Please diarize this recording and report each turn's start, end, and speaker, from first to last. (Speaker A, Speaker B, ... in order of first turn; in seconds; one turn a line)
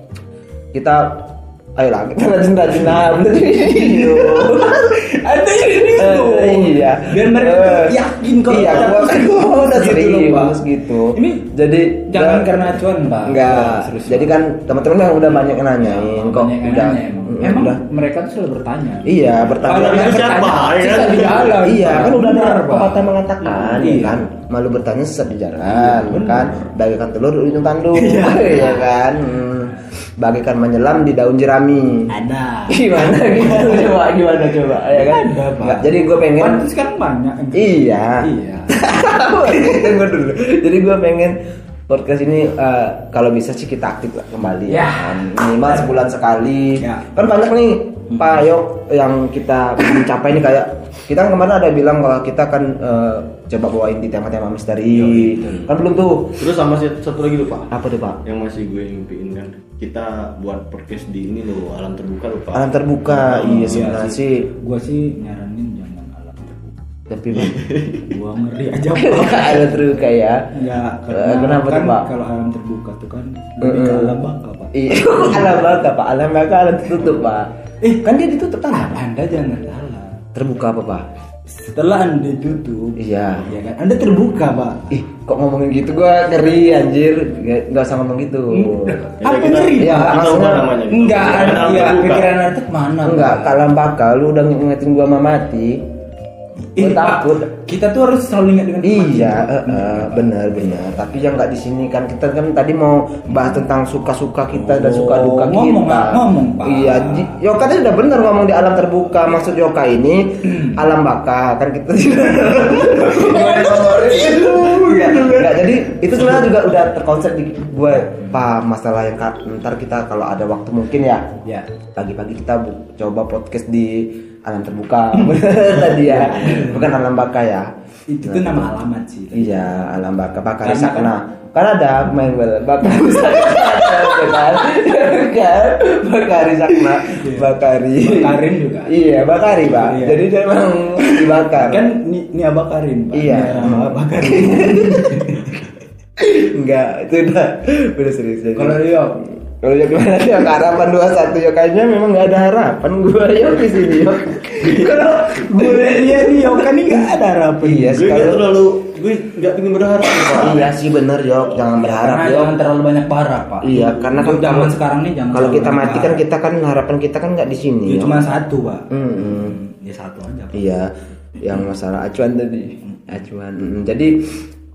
Speaker A: 0.7-17.8
Speaker B: 3.7-10.6
Speaker B: 11.1-11.5
Speaker B: 12.1-14.4
Speaker B: 15.8-23.1
Speaker A: 19.0-20.3
Speaker C: 19.6-21.7
Speaker A: 21.6-32.1
Speaker C: 23.4-23.8
Speaker B: 23.8-24.2
Speaker B: 25.6-26.7
Speaker B: 27.9-29.0
Speaker B: 32.1-34.0
Speaker A: 32.7-36.6
Speaker B: 34.8-40.0
Speaker A: 37.5-41.4
Speaker A: 41.9-56.4
Speaker B: 44.7-45.9
Speaker B: 46.8-47.0
Speaker C: 54.9-55.6
Speaker B: 55.4-55.7
Speaker C: 56.4-64.1
Speaker A: 57.7-58.2
Speaker A: 62.5-64.5
Speaker B: 63.5-66.7
Speaker A: 67.1-67.7
Speaker C: 67.3-68.1
Speaker B: 68.0-69.8
Speaker A: 68.9-70.4
Speaker B: 70.5-75.6
Speaker A: 71.1-72.1
Speaker A: 73.6-74.2
Speaker A: 74.7-77.5
Speaker B: 77.8-78.1
Speaker A: 78.0-79.0
Speaker B: 78.7-80.2
Speaker A: 80.3-81.0
Speaker B: 81.5-84.9
Speaker A: 83.0-83.5
Speaker A: 84.9-89.1
Speaker B: 88.5-93.6
Speaker C: 89.2-92.3
Speaker A: 89.8-90.7
Speaker A: 93.0-95.8
Speaker B: 96.7-100.9
Speaker A: 96.8-97.5
Speaker A: 98.8-121.3
Speaker B: 104.5-107.3
Speaker B: 112.6-115.5
Speaker B: 121.4-121.7
Speaker A: 121.9-127.7
Speaker C: 125.9-126.7
Speaker B: 126.3-126.8
Speaker B: 128.1-129.9
Speaker A: 128.2-128.7
Speaker A: 129.3-141.9
Speaker B: 130.6-131.1
Speaker B: 137.1-139.0
Speaker B: 139.7-140.3
Speaker B: 141.0-145.6
Speaker A: 143.1-145.4
Speaker A: 146.2-157.0
Speaker B: 148.5-149.2
Speaker B: 154.6-158.0
Speaker A: 157.6-158.5
Speaker C: 157.9-160.7
Speaker A: 160.3-162.6
Speaker B: 161.8-166.2
Speaker A: 163.6-164.7
Speaker A: 165.3-168.2
Speaker B: 167.8-170.8
Speaker A: 168.9-169.6
Speaker A: 170.5-174.4